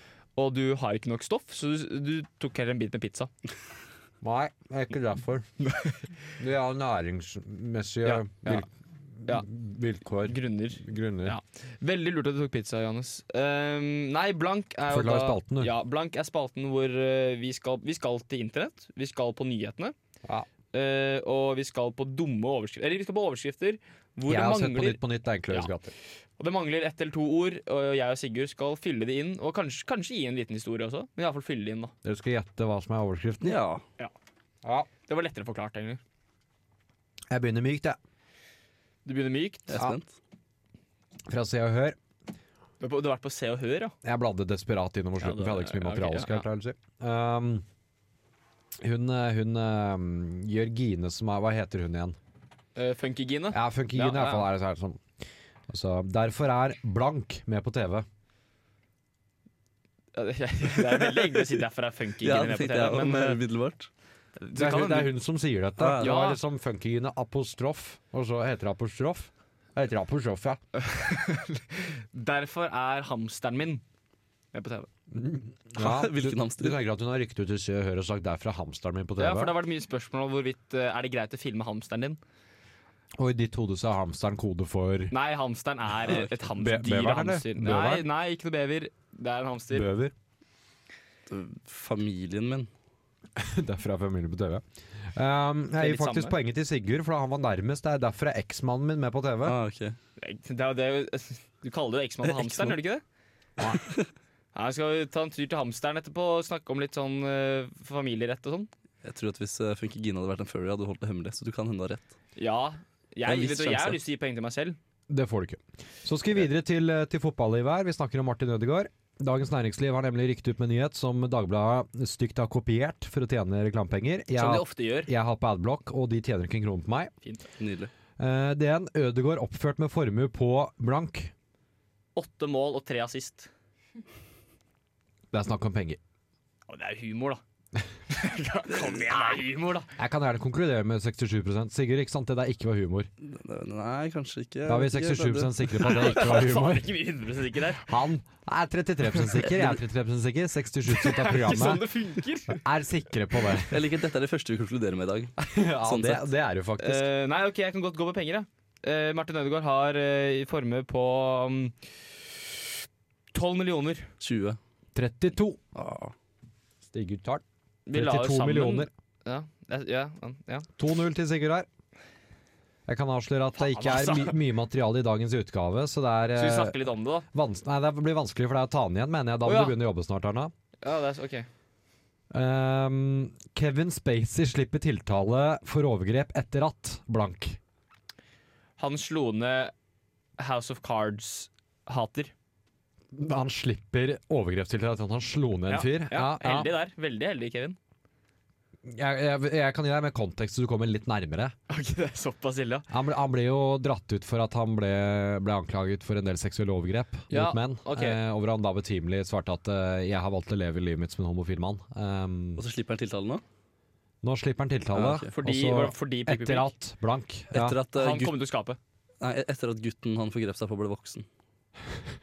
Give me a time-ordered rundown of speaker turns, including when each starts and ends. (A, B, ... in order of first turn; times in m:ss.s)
0:00.4-0:03.3 A
0:04.2-0:05.5 B
0:05.6-0:06.0 A
0:06.4-0:08.7 B
0:08.0-0:08.6 A
0:09.2-0:11.4 B
0:10.3-0:19.9 A
0:14.9-0:15.7 B
0:20.7-0:25.7 A
0:24.3-0:25.9 B
0:26.4-0:31.9 A
0:32.0-0:33.6 B
0:33.4-0:33.8 C
0:35.1-0:36.0 A
0:37.3-0:38.0 B
0:39.0-0:39.7 A
0:39.7-0:40.1 C
0:41.3-0:42.0 B
0:42.8-0:44.0 A
0:44.0-0:47.6 B
0:45.2-0:46.4 A
0:48.8-0:52.2 B
0:52.8-0:54.5 A
0:53.5-0:55.0 B
0:55.7-0:58.1 B
1:00.1-1:03.4 A
1:02.2-1:03.9 C
1:04.4-1:05.1 A
1:04.6-1:10.6 B
1:05.8-1:06.2 C
1:06.0-1:06.4 A
1:10.8-1:13.8 A
1:14.5-1:14.9 A
1:15.1-1:19.6 B
1:15.8-1:16.8 C
1:19.2-1:22.2 A
1:23.2-1:25.1 B
1:25.1-1:29.9 A
1:26.1-1:28.1 B
1:29.7-1:30.1 B
1:31.3-1:32.7 C
1:33.4-1:34.6 B
1:35.2-1:39.6 B
1:35.8-1:36.3 A
1:39.4-1:40.0 C
1:40.2-1:43.0 A
1:42.3-1:42.8 C
1:44.5-1:48.7 A
1:49.0-1:52.1 C
1:52.4-1:54.8 A
1:53.3-1:54.0 C
1:55.1-2:07.1 B
2:04.4-2:05.1 A
2:07.6-2:07.9 C
2:08.2-2:11.3 B
2:12.2-2:13.5 A
2:15.3-2:16.0 B
2:16.7-2:17.4 A
2:18.1-2:19.9 A
2:20.0-2:23.1 B
2:23.2-2:25.6 C
2:24.7-2:26.9 B
2:25.8-2:27.9 A
2:27.8-2:31.8 B
2:30.9-2:32.6 A
2:32.5-2:33.8 B
2:33.7-2:35.3 C
2:35.4-2:37.1 B
2:35.8-2:36.2 C
2:36.8-2:41.8 A
2:43.3-2:44.1 A
2:44.2-2:44.6 C
2:45.0-2:45.6 B
2:45.8-2:46.1 C
2:46.9-2:48.9 B
2:47.9-2:50.7 A
2:50.8-2:51.7 B
2:52.9-2:56.8 B
2:53.6-2:54.4 A
2:56.4-2:57.3 A
2:57.3-3:00.5 B
2:59.4-2:59.8 A
3:00.8-3:01.5 A
3:02.3-3:07.6 B
3:08.8-3:09.7 A
3:10.4-3:12.3 A
3:13.1-3:16.7 B
3:15.7-3:17.8 A
3:18.8-3:21.5 B
3:21.7-3:22.9 A
3:22.9-3:32.6 B
3:27.3-3:28.2 A
3:32.6-3:33.4 C
3:34.2-3:37.8 B
3:34.9-3:35.3 C
3:35.3-3:36.7 A
3:37.5-3:38.4 C
3:37.9-3:38.8 A
3:39.2-3:41.3 C